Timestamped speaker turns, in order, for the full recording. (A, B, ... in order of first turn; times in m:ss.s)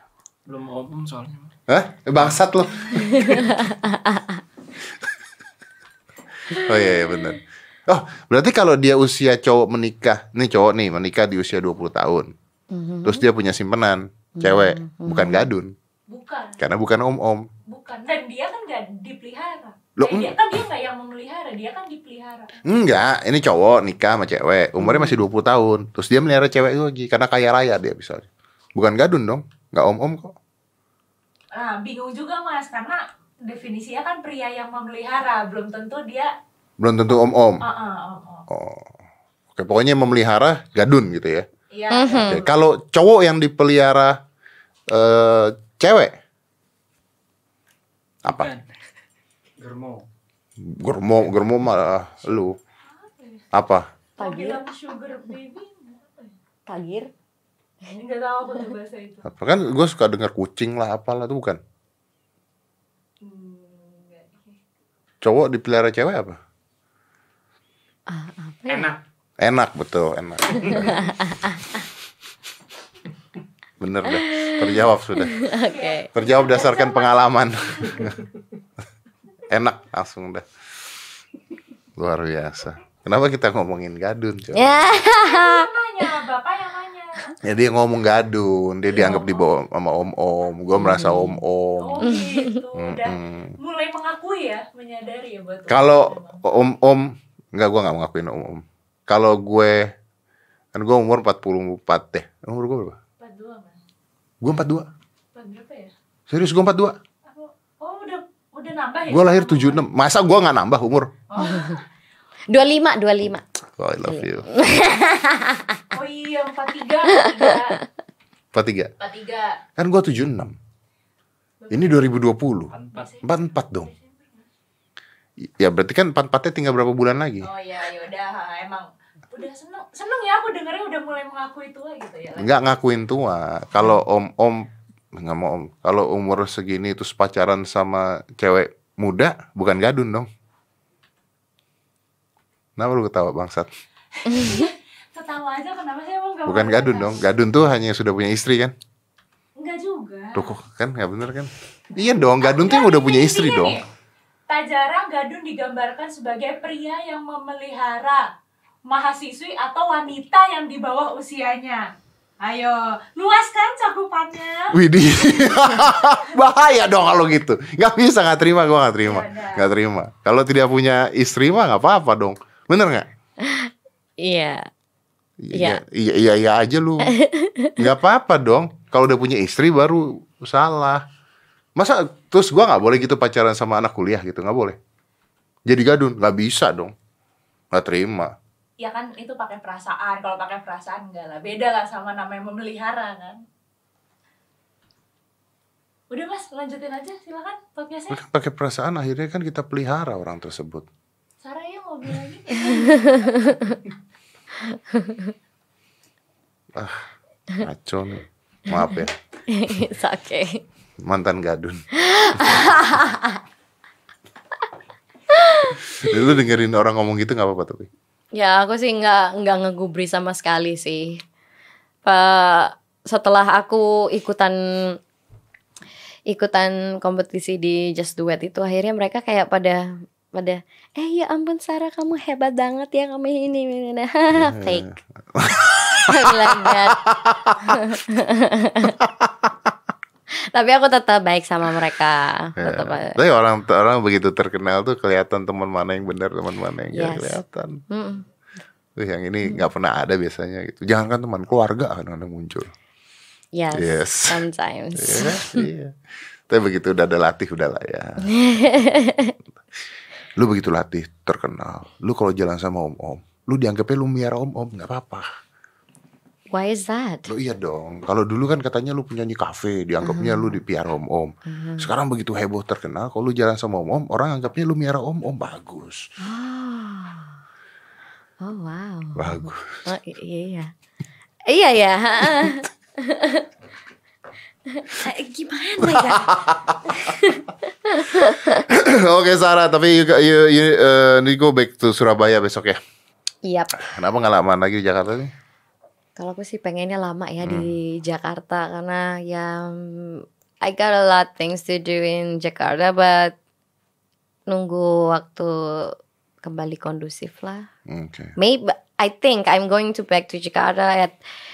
0:00.5-0:01.5 A
0:01.7-0:03.5 B
0:03.0-0:04.4 C
0:06.5-0:12.3 B
0:06.6-0:07.2 C
0:12.7-0:13.3 C
0:13.0-0:15.7 B
0:14.4-0:15.5 C
0:16.1-0:16.6 D
0:16.6-0:17.5 B
0:17.7-0:22.6 D
0:20.0-0:20.4 B
0:22.6-0:30.3 B
0:24.8-0:25.1 C
0:31.5-0:36.3 D
0:36.8-0:37.6 B
0:37.6-0:38.5 D
0:38.5-0:38.9 B
0:39.6-0:41.5 B
0:41.7-0:42.5 D
0:41.9-0:42.4 C
0:42.2-0:44.2 B
0:44.9-0:46.2 B
0:48.2-0:48.6 B
0:48.3-0:48.6 A
0:49.6-0:50.0 A
0:50.6-0:52.6 B
0:52.9-0:53.4 D
0:53.5-0:53.9 B
0:54.2-0:56.4 D
0:54.2-0:54.6 C
0:56.7-0:57.1 C
0:58.0-0:59.3 D
0:59.2-1:01.6 B
1:03.2-1:04.6 D
1:05.2-1:06.4 B
1:08.1-1:09.0 C
1:08.7-1:09.0 A
1:09.4-1:11.1 B
1:10.6-1:11.8 C
1:13.8-1:15.4 B
1:14.1-1:16.1 C
1:15.4-1:17.1 D
1:16.1-1:18.2 B
1:17.8-1:18.1 D
1:19.5-1:20.5 B
1:22.0-1:25.0 B
1:24.5-1:26.1 C
1:25.2-1:27.4 D
1:27.4-1:32.2 B
1:28.9-1:29.5 D
1:30.7-1:31.4 C
1:31.8-1:36.4 D
1:32.0-1:32.6 C
1:32.7-1:33.6 B
1:35.7-1:39.9 B
1:40.7-1:43.0 B
1:43.2-1:43.8 D
1:44.4-1:44.9 B
1:45.3-1:45.9 D
1:46.3-1:47.0 B
1:47.3-1:49.9 D
1:49.1-1:51.1 B
1:51.3-1:51.8 D
1:51.4-1:51.8 C
1:52.5-1:53.4 C
1:53.8-1:54.5 B
1:54.0-1:55.8 C
1:55.9-1:57.8 D
1:57.2-1:57.7 C
1:58.5-1:58.9 B
1:59.0-1:59.6 D
1:59.8-2:00.6 B
2:01.6-2:02.2 D
2:01.7-2:03.9 B
2:02.7-2:03.2 A
2:02.9-2:04.4 D
2:05.5-2:07.5 B
2:07.4-2:12.7 D
2:12.4-2:20.3 B
2:22.8-2:23.7 B
2:24.2-2:27.2 D
2:24.3-2:24.7 C
2:26.5-2:28.7 B
2:29.6-2:30.5 D
2:30.4-2:33.8 B
2:32.4-2:33.8 D
2:34.5-2:38.3 D
2:38.9-2:41.9 D
2:42.4-2:44.8 D
2:44.7-2:53.1 B
2:45.4-2:46.2 D
2:49.0-2:49.6 D
2:53.4-2:54.7 C
2:55.4-2:57.2 B
2:55.5-2:55.8 C
2:57.0-2:57.9 C
2:57.8-3:01.0 B
3:01.8-3:04.8 B
3:05.7-3:06.9 B
3:07.7-3:08.3 B
3:08.8-3:13.4 D
3:16.1-3:18.2 D
3:18.1-3:20.9 B
3:21.4-3:23.7 D
3:22.6-3:23.8 C
3:24.7-3:25.3 C
3:26.8-3:29.2 B
3:29.5-3:30.6 C
3:31.0-3:31.8 B
3:31.9-3:33.4 C
3:35.3-3:36.2 C
3:35.9-3:37.9 B
3:38.3-3:41.2 C
3:42.0-3:45.0 C
3:46.3-3:54.9 C
3:54.3-3:57.7 B
3:55.9-3:57.0 C
3:57.6-3:59.0 C
3:59.0-3:59.5 B
4:00.4-4:03.2 C
4:02.6-4:07.8 B
4:06.9-4:08.3 C
4:09.0-4:12.7 B
4:13.5-4:15.7 C
4:13.7-4:14.4 B
4:15.0-4:15.9 B
4:16.5-4:18.6 B
4:18.3-4:19.4 C
4:20.4-4:25.3 B
4:26.5-4:27.3 C
4:27.3-4:36.0 B
4:30.0-4:30.6 C
4:31.5-4:31.9 C
4:36.2-4:37.4 C
4:38.4-4:40.7 C
4:39.2-4:39.8 B
4:41.5-4:43.5 C
4:44.7-4:46.3 C
4:45.8-4:47.0 B
4:46.9-4:48.7 C
4:48.5-4:52.8 B
4:53.4-4:53.8 C
4:53.8-4:55.3 B
4:56.2-5:03.4 C
4:57.4-4:57.7 B
5:04.5-5:07.7 C
5:07.9-5:08.4 B
5:08.4-5:11.2 C